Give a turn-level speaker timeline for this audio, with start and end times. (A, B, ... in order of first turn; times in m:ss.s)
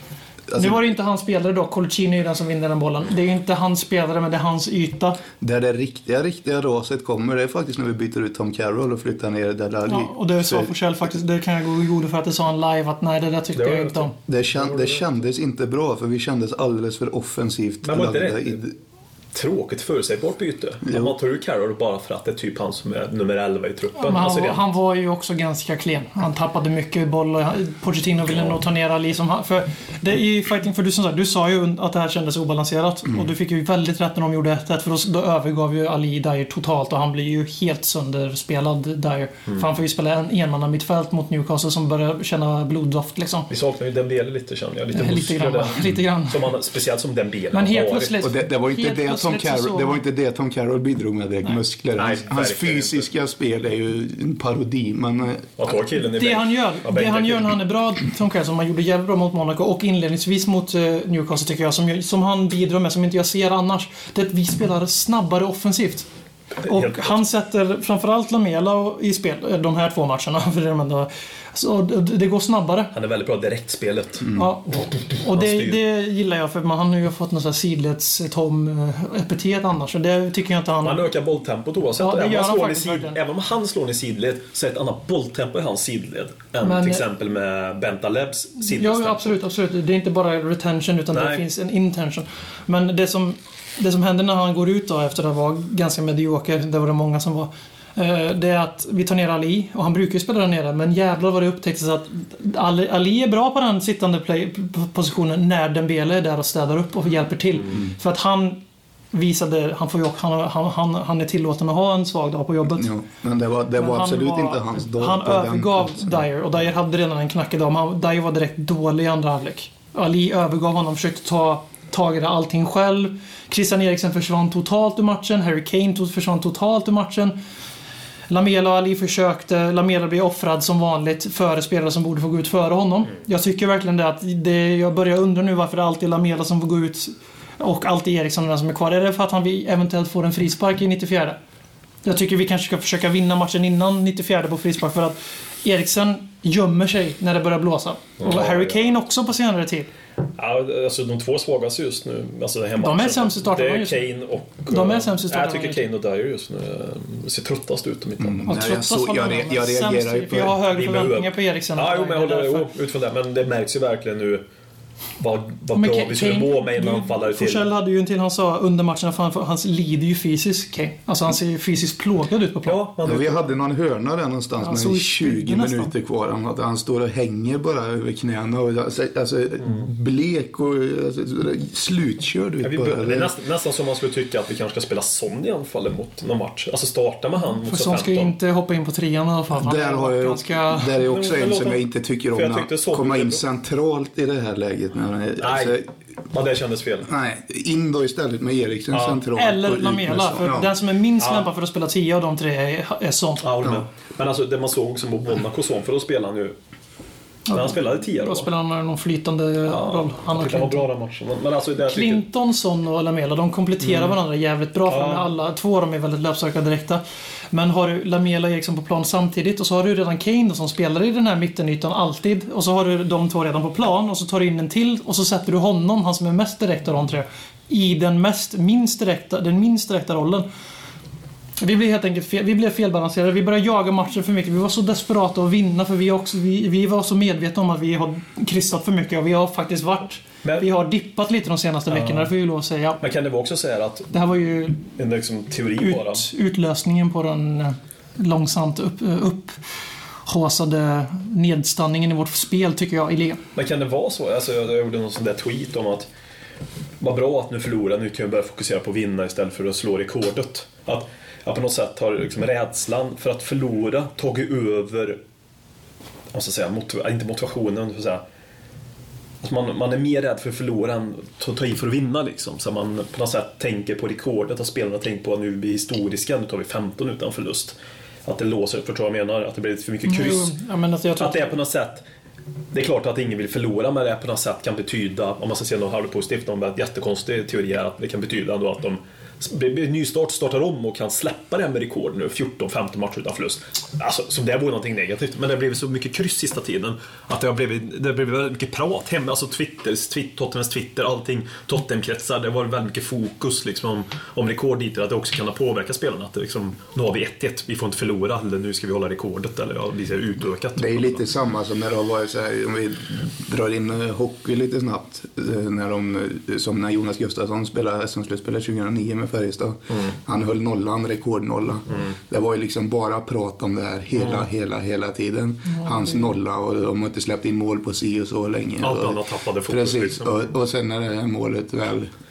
0:00.5-0:00.8 A
0:00.5-0:05.2 B
0:05.4-0:10.7 A
0:09.9-0:14.1 B
0:13.5-0:15.0 C
0:14.3-0:18.7 A
0:17.8-0:18.6 C
0:19.3-0:24.6 C
0:20.8-0:21.1 A
0:24.0-0:43.5 B
0:43.5-0:48.2 C
0:44.9-0:46.5 B
0:47.5-0:50.0 B
0:48.2-0:55.6 A
0:52.0-0:53.1 C
0:55.6-0:57.6 C
0:56.0-1:06.1 B
1:06.6-1:07.2 C
1:06.6-1:12.9 B
1:12.9-1:15.8 C
1:14.3-1:21.1 B
1:20.8-1:29.3 C
1:22.0-1:23.2 B
1:26.6-1:27.0 B
1:28.6-1:48.6 B
1:31.1-1:31.4 C
1:49.1-1:52.9 B
1:52.7-1:56.2 A
1:53.8-2:07.4 B
2:08.3-2:21.4 B
2:22.0-2:29.9 B
2:28.2-2:28.8 C
2:30.4-2:38.4 C
2:32.8-2:34.0 B
2:34.7-2:35.9 B
2:38.2-2:40.6 A
2:38.4-2:42.7 B
2:40.7-2:44.4 C
2:45.2-2:47.7 C
2:45.7-2:52.8 B
2:52.6-2:53.5 C
2:53.0-3:03.3 A
2:54.6-2:55.9 B
3:02.6-3:08.3 C
3:07.6-3:10.9 B
3:09.5-3:15.8 A
3:11.0-3:13.4 C
3:15.4-3:17.1 C
3:17.0-3:20.7 A
3:18.9-3:19.2 C
3:19.3-3:23.4 B
3:21.2-3:21.5 C
3:23.4-3:26.5 C
3:27.5-3:30.9 B
3:27.5-3:28.5 C
3:29.7-3:32.2 C
3:31.9-3:50.4 B
3:33.8-3:34.2 C
3:34.9-3:35.3 C
3:51.6-4:03.0 B
4:01.9-4:02.3 C
4:03.0-4:04.1 C
4:04.1-4:04.9 B
4:04.9-4:06.3 C
4:05.8-4:09.6 B
4:10.2-4:13.4 B
4:13.5-4:16.1 C
4:17.0-4:25.2 C
4:26.3-4:28.2 C
4:29.4-4:40.5 C
4:40.0-4:41.6 B
4:41.2-4:42.0 C
4:42.7-5:11.2 C
5:10.8-5:32.1 A
5:24.2-5:24.4 C
5:28.8-5:30.4 C